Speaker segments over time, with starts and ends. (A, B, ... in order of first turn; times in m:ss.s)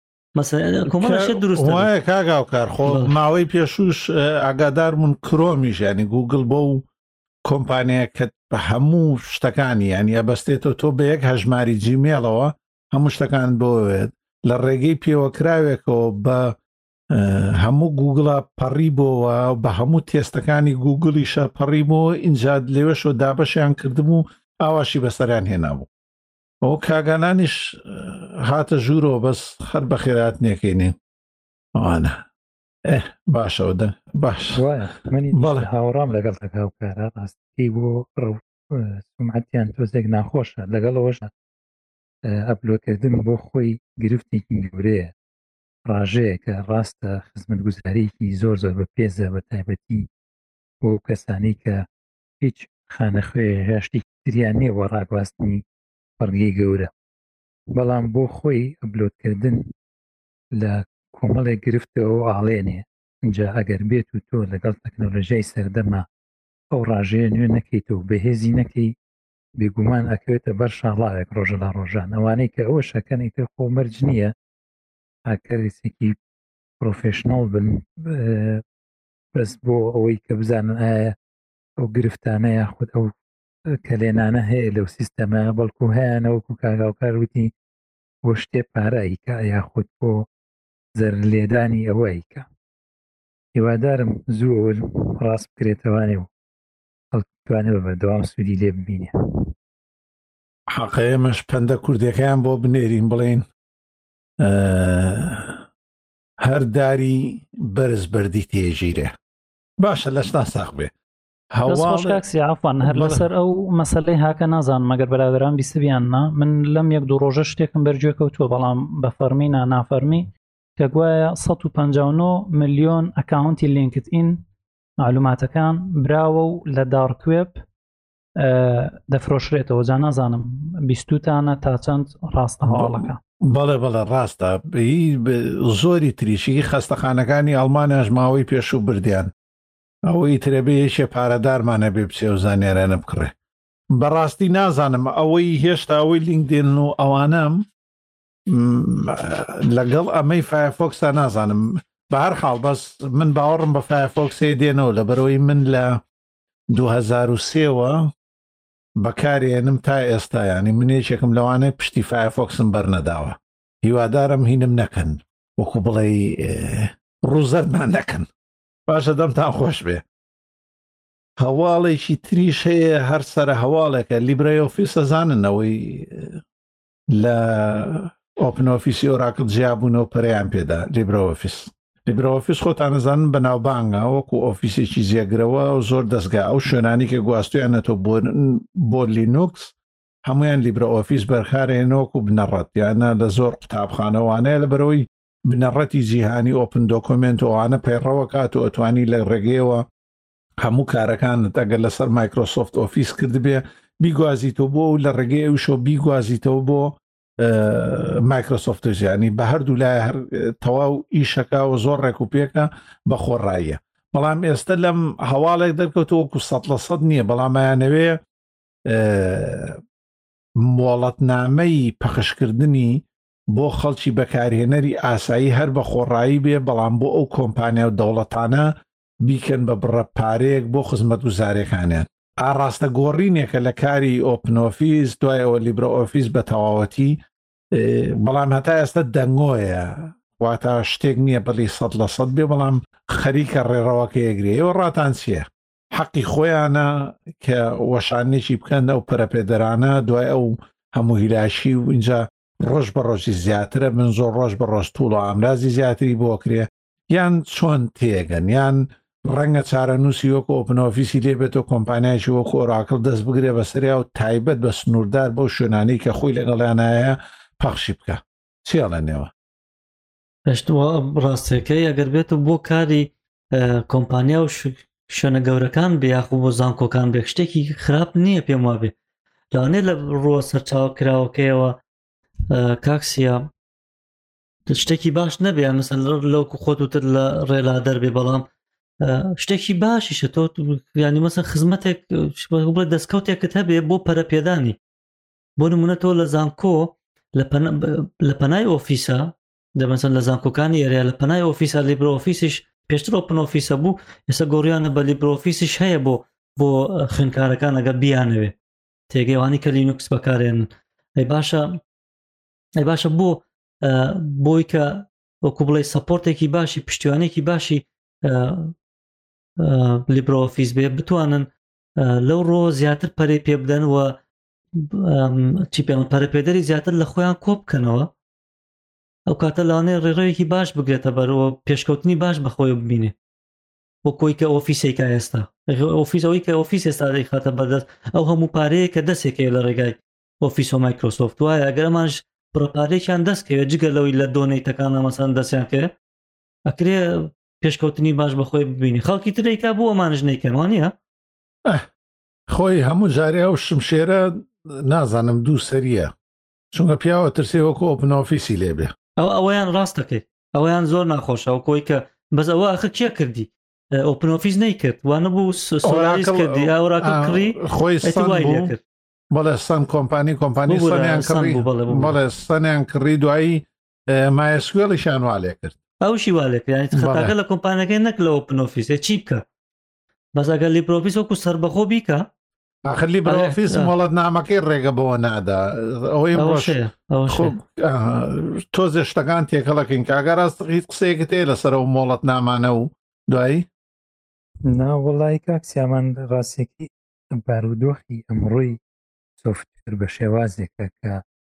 0:00.3-0:01.9 A
0:00.8-0:06.9 B
0:02.8-0:03.1 A
0:07.4-0:16.6 B
0:17.1-0:25.9 B
0:26.6-0:30.9 B
0:31.7-0:32.2 B
0:32.8-0:34.6 B
0:34.5-0:41.3 C
0:35.3-0:35.7 B
0:42.2-0:45.1 C
0:45.8-0:50.1 C
0:50.8-0:51.9 C
0:52.4-0:55.6 C
0:56.2-0:56.9 C
0:57.7-0:59.7 C
1:00.6-1:06.0 C
1:06.7-1:08.9 C
1:09.6-1:14.3 C
1:15.3-1:16.2 C
1:16.8-1:18.6 C
1:19.3-1:21.2 C
1:21.8-1:23.1 C
1:23.8-1:27.5 C
1:28.2-1:30.2 C
1:31.0-1:32.4 C
1:33.5-1:36.3 C
1:37.1-1:39.1 C
1:40.7-1:43.4 B
1:44.4-1:45.6 B
1:46.4-1:49.1 B
1:49.8-1:50.9 B
1:51.5-1:52.2 B
1:51.6-2:04.4 D
1:52.8-1:53.3 B
2:05.0-2:07.6 D
2:08.4-2:13.2 D
2:12.7-2:19.3 B
2:20.0-2:23.3 B
2:23.9-2:27.6 B
2:28.5-2:36.0 B
2:36.7-2:38.1 B
2:39.0-2:48.3 B
2:48.9-2:50.0 B
2:51.4-2:56.4 B
2:57.1-3:19.8 B
3:20.6-3:38.2 B
3:38.9-3:39.8 B
3:40.6-3:57.2 B
3:57.7-4:29.3 B
4:30.5-4:38.9 A
4:39.5-4:41.8 A
4:42.5-4:43.5 A
4:44.7-4:48.5 A
4:49.0-4:54.8 A
4:55.6-5:08.5 A
5:09.1-5:10.7 A
5:11.2-5:11.8 A
5:12.8-5:18.7 A
5:19.6-5:21.5 A
5:22.0-5:24.2 A
5:24.8-5:28.1 A
5:29.3-5:33.1 A
5:34.0-5:45.9 A
5:46.6-5:50.9 A
5:52.5-5:56.1 B
5:56.7-5:58.9 B
5:59.2-6:08.8 A
6:05.8-6:08.7 B
6:09.3-6:15.8 B
6:10.7-6:12.2 A
6:16.0-6:19.4 A
6:16.9-6:17.3 B
6:20.3-6:22.3 A
6:22.8-6:26.8 B
6:23.2-6:23.9 A
6:26.3-6:27.5 A
6:27.3-6:33.7 B
6:34.7-6:38.8 C
6:39.4-6:41.2 C